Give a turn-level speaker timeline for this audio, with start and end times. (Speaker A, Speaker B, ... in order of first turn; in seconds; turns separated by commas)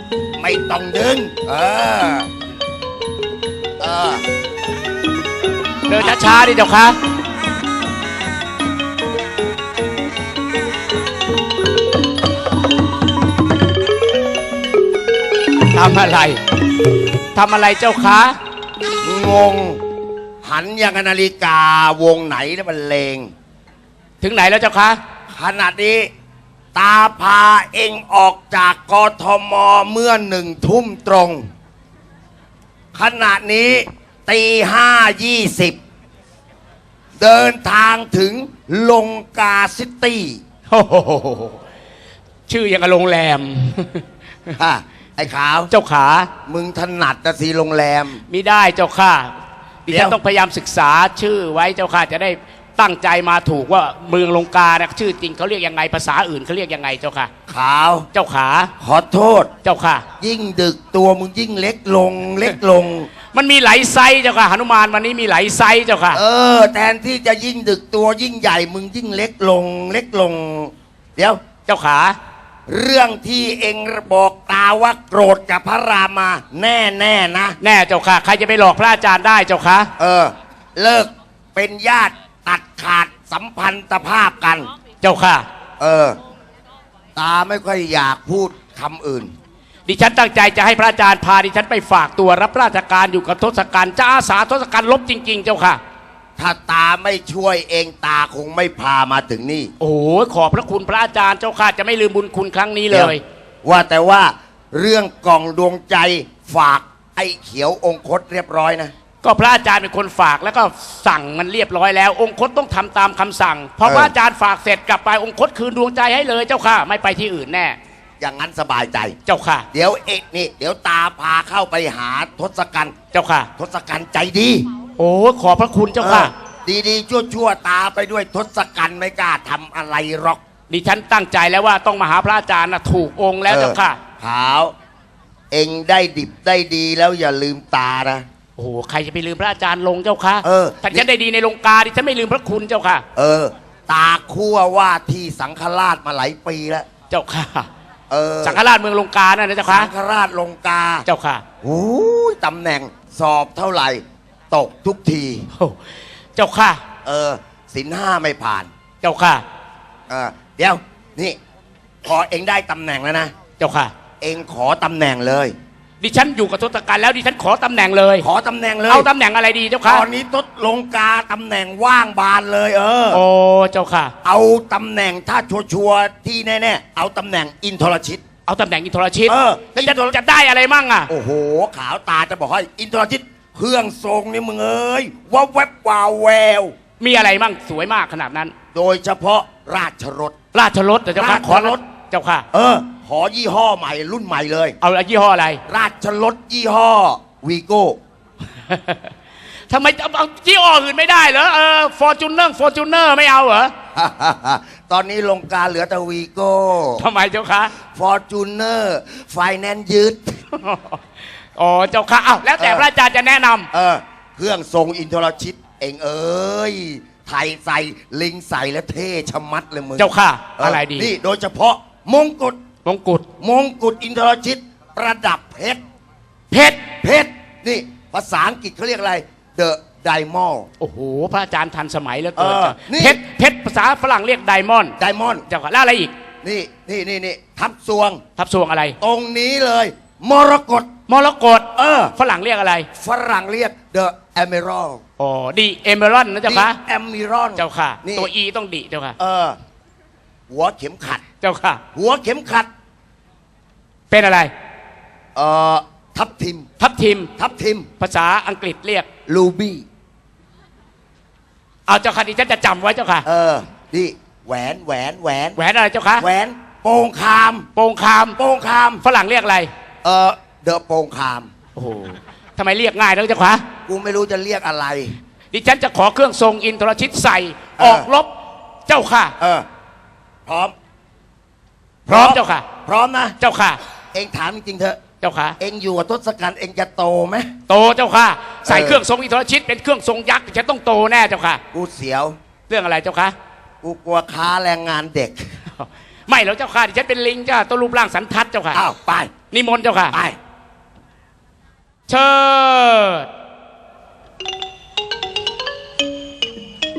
Speaker A: 0.4-2.3, Speaker A: 3.8-4.2, Speaker B: 5.9-7.0, Speaker B: 15.7-16.4, Speaker B: 17.3-18.4, Speaker A: 19.0-19.8, Speaker A: 20.4-23.3, Speaker B: 24.2-25.0, Speaker A: 25.3-26.1, Speaker A: 26.8-31.4, Speaker A: 32.9-35.8, Speaker A: 37.2-40.4, Speaker B: 40.7-41.6, Speaker B: 42.5-44.0, Speaker A: 44.6-45.7, Speaker B: 45.7-46.3, Speaker A: 46.5-48.2, Speaker B: 48.3-57.3, Speaker A: 49.9-50.2, Speaker A: 57.5-58.1, Speaker B: 58.1-58.7, Speaker A: 58.8-59.5, Speaker B: 59.6-60.1, Speaker A: 60.2-63.1, Speaker B: 63.3-66.2, Speaker A: 66.1-71.4, Speaker B: 71.7-72.2, Speaker A: 72.7-77.6, Speaker B: 77.6-79.9, Speaker A: 80.0-84.7, Speaker B: 85.0-85.5, Speaker A: 85.8-86.2, Speaker A: 87.2-89.3, Speaker B: 89.9-95.8, Speaker A: 96.4-99.7, Speaker B: 99.8-103.2, Speaker A: 102.9-108.9, Speaker B: 109.2-117.8, Speaker A: 113.8-114.1, Speaker A: 118.2-119.2, Speaker B: 119.3-119.7, Speaker A: 119.7-122.9, Speaker B: 123.1-123.5, Speaker A: 123.6-124.7, Speaker B: 125.0-126.3, Speaker A: 126.0-130.4, Speaker B: 130.7-134.0, Speaker A: 133.5-134.7, Speaker A: 135.5-138.2, Speaker B: 138.6-143.0, Speaker A: 140.4-141.1, Speaker A: 143.2-146.9, Speaker B: 147.1-147.7, Speaker A: 148.1-148.6, Speaker B: 148.4-149.9, Speaker A: 149.7-151.1, Speaker B: 151.1-151.4, Speaker A: 151.6-155.5, Speaker B: 156.4-156.8, Speaker A: 157.1-158.7, Speaker B: 159.0-159.4, Speaker A: 160.1-161.4, Speaker A: 162.0-163.3, Speaker B: 163.6-163.9, Speaker A: 164.2-165.6, Speaker B: 166.0-168.3, Speaker A: 168.2-169.1, Speaker B: 168.9-170.1, Speaker A: 169.8-173.2, Speaker B: 173.1-174.1, Speaker A: 174.2-178.2, Speaker B: 178.5-181.1, Speaker A: 179.3-180.2, Speaker A: 181.1-186.7, Speaker B: 187.0-188.5, Speaker A: 188.7-190.3, Speaker B: 190.5-192.5, Speaker A: 191.2-191.8, Speaker A: 192.5-194.8, Speaker B: 194.8-195.6, Speaker A: 195.7-198.0, Speaker B: 198.7-199.1, Speaker B: 199.7-203.7, Speaker A: 203.9-207.1, Speaker B: 207.0-207.7, Speaker A: 207.9-210.4, Speaker B: 210.5-211.0, Speaker B: 211.6-213.7, Speaker A: 212.6-212.9, Speaker A: 213.7-222.6, Speaker B: 220.0-221.1, Speaker B: 222.8-223.3, Speaker A: 223.4-225.8, Speaker B: 226.5-226.8, Speaker A: 226.9-230.7, Speaker B: 230.8-235.0, Speaker A: 232.4-233.2, Speaker A: 235.0-235.4, Speaker B: 235.5-236.1, Speaker A: 236.4-238.2, Speaker B: 238.4-239.0, Speaker A: 239.0-240.9, Speaker B: 241.1-242.9, Speaker A: 241.8-242.1, Speaker A: 243.0-245.0, Speaker B: 245.2-246.8, Speaker A: 246.5-248.3, Speaker B: 247.6-249.2, Speaker A: 249.2-249.6, Speaker A: 250.5-251.2, Speaker B: 251.4-251.8, Speaker A: 251.9-252.7, Speaker B: 254.1-254.5, Speaker A: 255.3-256.7, Speaker B: 256.8-257.3, Speaker A: 257.4-257.9, Speaker B: 258.0-259.1, Speaker A: 259.3-259.9, Speaker B: 261.9-263.3, Speaker A: 263.2-265.6, Speaker B: 265.6-266.3, Speaker A: 266.2-267.7, Speaker B: 267.8-268.4, Speaker A: 268.4-269.0, Speaker B: 269.0-269.7, Speaker A: 270.0-271.5, Speaker B: 271.8-273.6, Speaker A: 273.9-275.1, Speaker B: 275.5-278.3, Speaker A: 277.8-278.1, Speaker B: 278.9-279.3, Speaker A: 279.4-279.7, Speaker A: 280.5-280.7, Speaker A: 282.1-283.4, Speaker B: 282.1-282.7, Speaker B: 283.4-283.8, Speaker A: 284.1-285.0, Speaker B: 285.2-285.6, Speaker A: 285.6-287.5, Speaker B: 287.7-291.6, Speaker A: 288.6-289.0, Speaker A: 291.7-292.4, Speaker B: 292.7-293.4, Speaker A: 293.8-295.5, Speaker B: 295.8-298.8, Speaker A: 298.7-299.3, Speaker B: 299.5-300.2, Speaker A: 300.1-300.4, Speaker B: 302.1-303.3